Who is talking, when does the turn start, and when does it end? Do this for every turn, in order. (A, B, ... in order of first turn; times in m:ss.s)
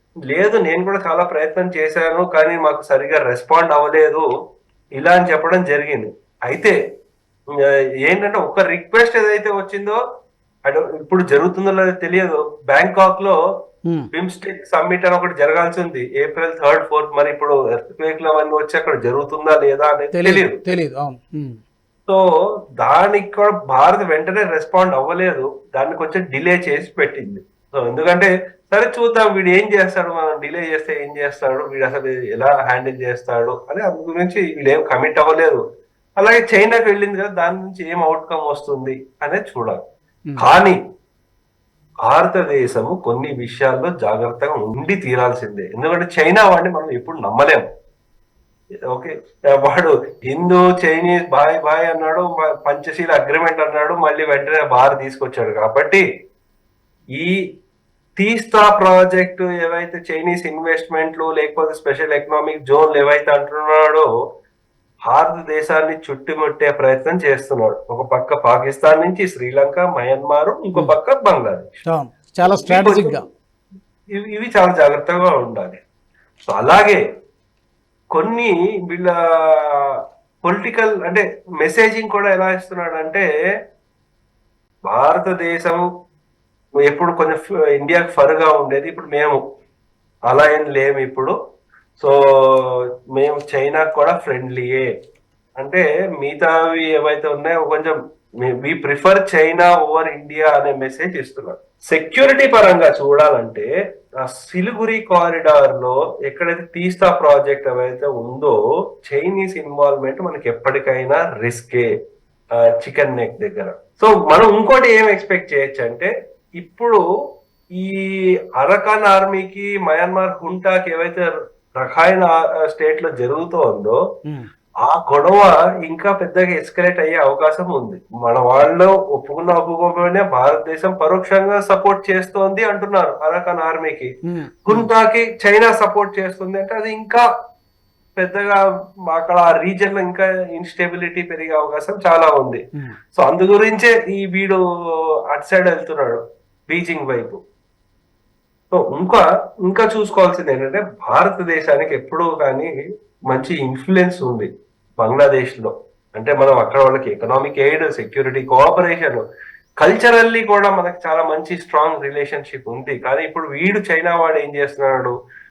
0:00.3-0:04.2 A
0:05.0-0:06.8 A
0:08.0-0:10.0 A
0:10.6-0:13.3 A
0:14.1-0:20.6 A
0:20.1-0:21.6 B
0:22.8-0:35.6 A
0:36.2-0:39.8 A
0:40.4-0:40.8 A
0:42.0-0:47.6 A
0:48.9-0:56.0 A
0:57.1-0:57.4 A
0:58.2-1:04.0 A
1:05.1-1:11.6 A
1:11.8-1:13.2 B
1:12.6-1:13.2 A
1:14.2-1:15.8 A
1:16.5-1:17.0 A
1:18.2-1:19.9 A
1:20.4-1:23.2 A
1:24.9-1:25.8 A
1:26.8-1:29.4 A
1:30.3-1:31.3 A
1:32.0-1:34.9 A
1:35.6-1:43.7 A
1:44.2-1:48.5 A
1:49.0-1:51.9 A
1:52.8-1:57.0 A
1:58.6-2:04.0 A
2:04.8-2:14.1 A
2:14.2-2:14.9 B
2:14.6-2:17.2 A
2:18.2-2:22.6 A
2:23.2-2:24.6 A
2:25.3-2:27.4 A
2:28.7-2:32.7 A
2:33.3-2:39.2 A
2:39.8-2:45.1 A